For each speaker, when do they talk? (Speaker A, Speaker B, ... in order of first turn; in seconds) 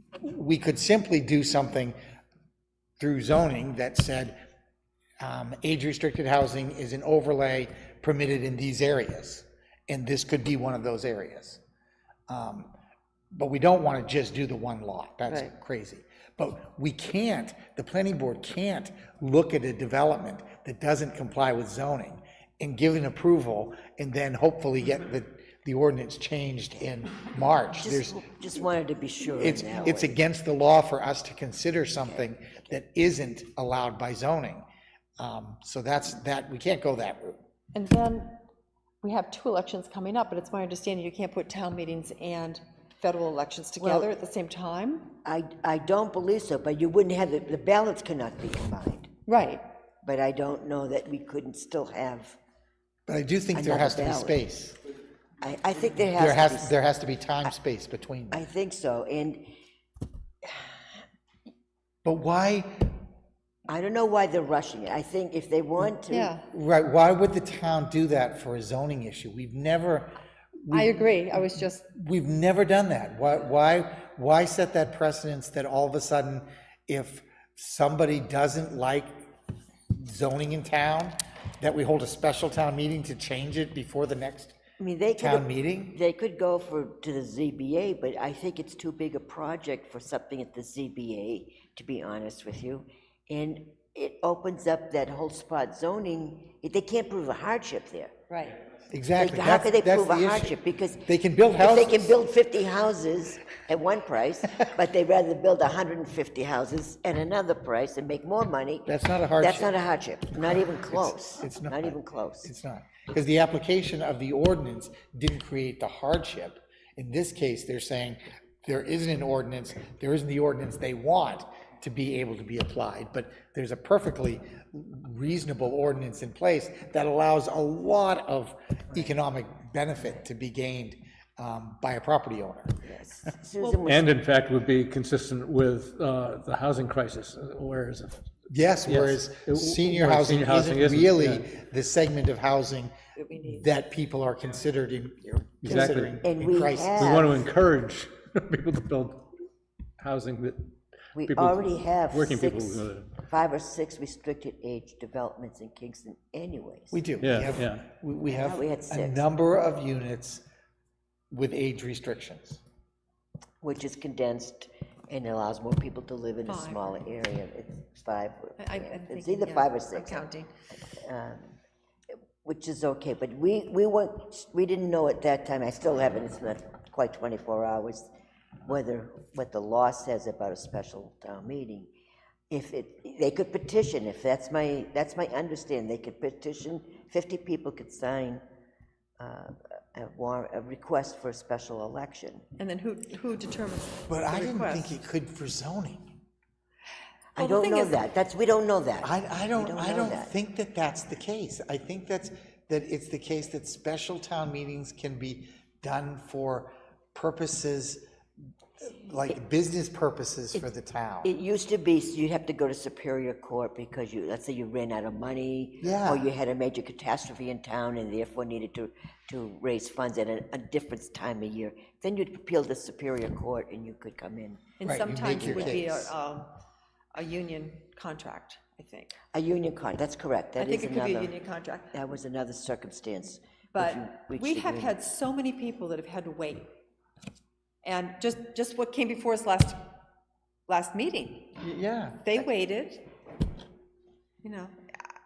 Speaker A: 0.2-2.0, 3.0-4.4, 5.2-11.6, 12.3-12.7, 13.3-28.2, 29.4-34.6, 35.2-37.4, 53.1-54.8, 56.2-58.4, 62.0-62.9, 66.5-79.2, 79.9-84.6, 85.2-86.0, 98.9-102.2, 108.9-109.7, 110.9-132.9, 138.5-147.4, 156.9-160.4, 161.3-162.6, 194.1-196.2, 199.0-208.0, 208.8-211.3, 215.8-216.2, 224.8-226.1, 241.6-242.3
Speaker B: 15.3-15.5, 37.7-38.4, 39.0-45.1, 49.3-49.6, 66.1-66.5, 70.7-71.9, 98.3-98.6, 143.2-143.7, 166.5-167.0, 168.6-170.5, 192.6-195.0, 197.4-198.0, 224.8-226.6, 227.1-229.2, 230.6-231.9, 233.7-236.7, 237.8-239.8, 240.7-241.6, 242.2-243.1, 244.4-245.0
Speaker C: 27.8-30.2, 32.0-32.5, 43.8-44.1, 45.2-49.1, 50.0-52.4, 53.5-54.4, 55.4-56.7, 58.3-59.5, 63.7-66.3, 84.8-98.1, 99.2-112.5, 132.8-134.1, 145.7-147.4, 151.2-157.1, 158.3-159.3, 163.6-170.3, 170.8-171.6, 172.4-178.1, 178.6-181.9, 182.5-188.4, 189.2-192.5, 197.3-200.3, 211.2-226.0, 229.3-231.3, 231.9-234.9
Speaker D: 133.8-141.5, 145.6-146.2, 147.0-149.3, 150.0-153.2, 157.2-157.8